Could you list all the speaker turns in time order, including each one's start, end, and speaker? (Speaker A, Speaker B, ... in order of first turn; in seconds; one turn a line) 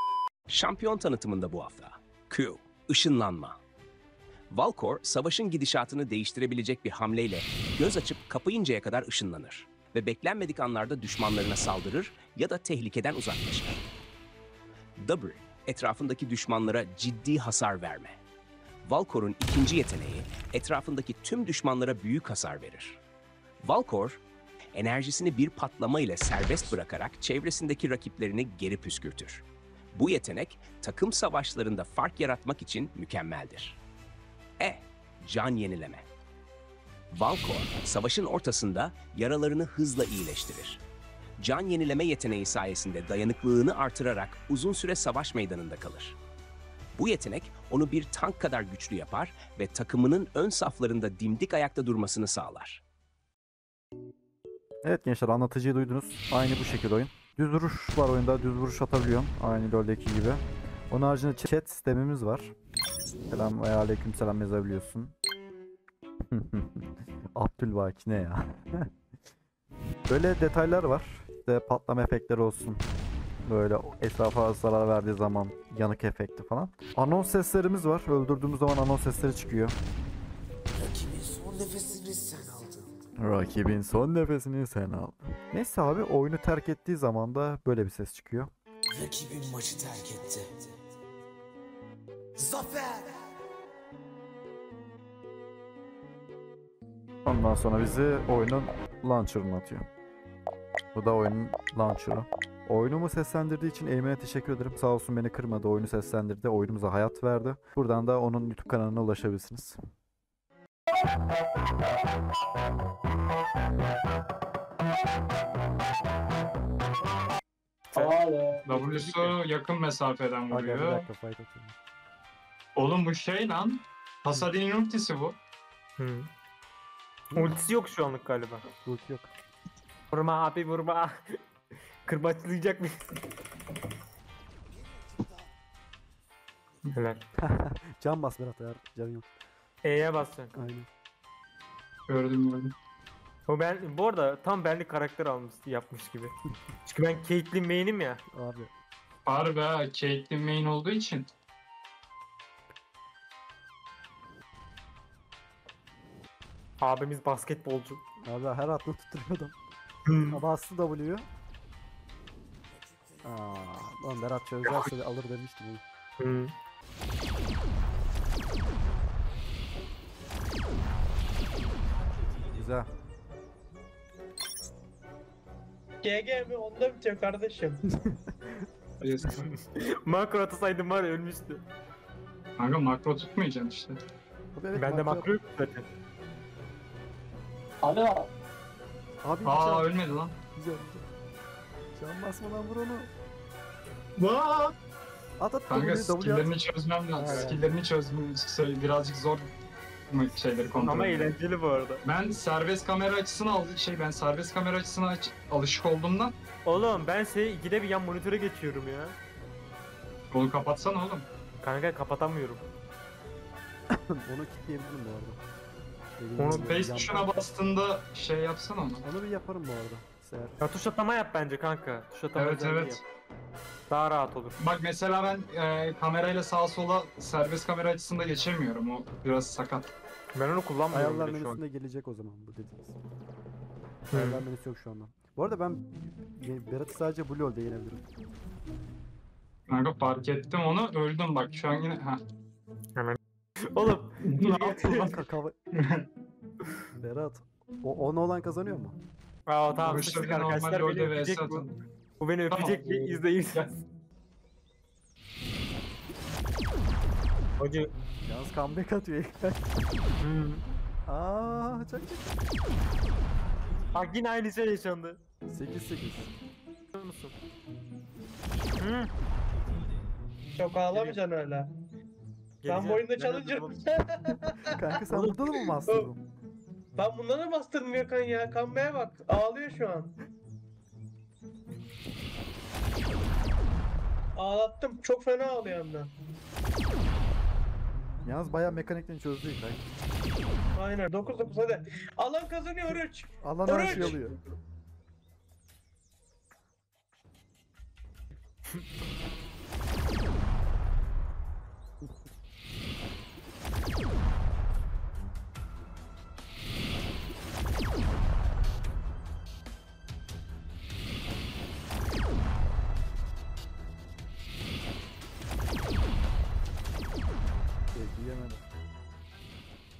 Speaker A: 0.5-3.6
Speaker A: 4.5-13.8
Speaker A: 15.0-18.2
Speaker A: 18.8-23.0
Speaker A: 23.6-24.2
Speaker A: 24.7-33.8
Speaker A: 34.6-36.0
Speaker A: 37.1-40.8
Speaker A: 41.4-46.2
Speaker A: 47.0-52.8
Speaker B: 54.8-62.5
Speaker B: 63.3-65.2
Speaker B: 66.3-68.9
Speaker B: 70.1-72.8
Speaker B: 73.5-79.8
Speaker C: 80.9-82.8
Speaker B: 83.2-88.5
Speaker C: 89.0-90.4
Speaker C: 92.4-93.0
Speaker B: 97.2-99.8
Speaker B: 100.9-109.8
Speaker D: 117.9-118.2
Speaker E: 118.7-121.1
Speaker B: 120.5-121.8
Speaker E: 122.8-125.4
Speaker D: 126.0-126.3
Speaker D: 127.3-128.7
Speaker B: 128.8-129.3
Speaker D: 130.1-131.4
Speaker D: 132.1-133.1
Speaker D: 136.9-137.2
Speaker B: 137.4-139.3
Speaker D: 139.8-140.6
Speaker B: 140.5-140.9
Speaker E: 142.1-142.7
Speaker D: 143.5-146.3
Speaker D: 146.9-148.2
Speaker B: 148.3-148.7
Speaker E: 149.3-151.3
Speaker D: 156.8-158.0
Speaker B: 158.2-159.6
Speaker D: 160.1-160.4
Speaker B: 160.3-161.3
Speaker B: 163.2-165.8
Speaker D: 166.2-166.5
Speaker B: 172.5-172.9
Speaker F: 176.0-177.8
Speaker E: 179.0-179.5
Speaker D: 179.4-181.6
Speaker E: 182.6-184.0
Speaker B: 184.6-185.3
Speaker D: 184.8-185.9
Speaker B: 189.2-189.9
Speaker E: 189.4-190.3
Speaker B: 190.6-191.1
Speaker B: 191.9-193.1
Speaker E: 194.2-194.7
Speaker B: 195.4-196.5
Speaker E: 195.7-199.5
Speaker B: 197.2-197.7
Speaker E: 200.1-201.3
Speaker D: 200.8-202.0
Speaker E: 202.1-206.3
Speaker D: 206.7-209.2
Speaker E: 210.3-211.3
Speaker D: 211.6-212.6
Speaker B: 213.9-215.4
Speaker B: 216.2-217.3
Speaker D: 216.4-216.7
Speaker E: 216.6-219.0
Speaker B: 219.0-220.7
Speaker D: 220.6-223.0
Speaker E: 222.4-223.0
Speaker D: 223.9-224.6
Speaker E: 224.6-229.9
Speaker D: 230.3-231.6
Speaker B: 230.9-233.0
Speaker D: 234.1-234.4
Speaker B: 234.1-238.1
Speaker E: 239.7-242.2
Speaker D: 243.0-245.1
Speaker E: 244.2-245.2
Speaker B: 244.9-245.6
Speaker E: 245.7-246.1
Speaker B: 246.9-249.0
Speaker D: 249.5-251.7
Speaker E: 249.7-251.7
Speaker D: 252.2-253.7
Speaker E: 252.5-253.7
Speaker D: 257.6-257.9
Speaker B: 258.2-259.6
Speaker D: 260.2-260.6
Speaker B: 261.1-262.4
Speaker D: 263.9-265.2
Speaker B: 265.5-266.3
Speaker D: 266.9-267.3
Speaker D: 268.8-269.1
Speaker F: 270.6-271.7
Speaker D: 270.9-271.2
Speaker D: 272.6-273.8
Speaker F: 272.7-275.0
Speaker B: 274.7-276.2
Speaker D: 275.1-275.4
Speaker F: 277.0-280.1
Speaker F: 284.4-286.1
Speaker B: 288.2-289.9
Speaker F: 290.8-294.2
Speaker B: 293.4-294.4
Speaker B: 317.9-318.6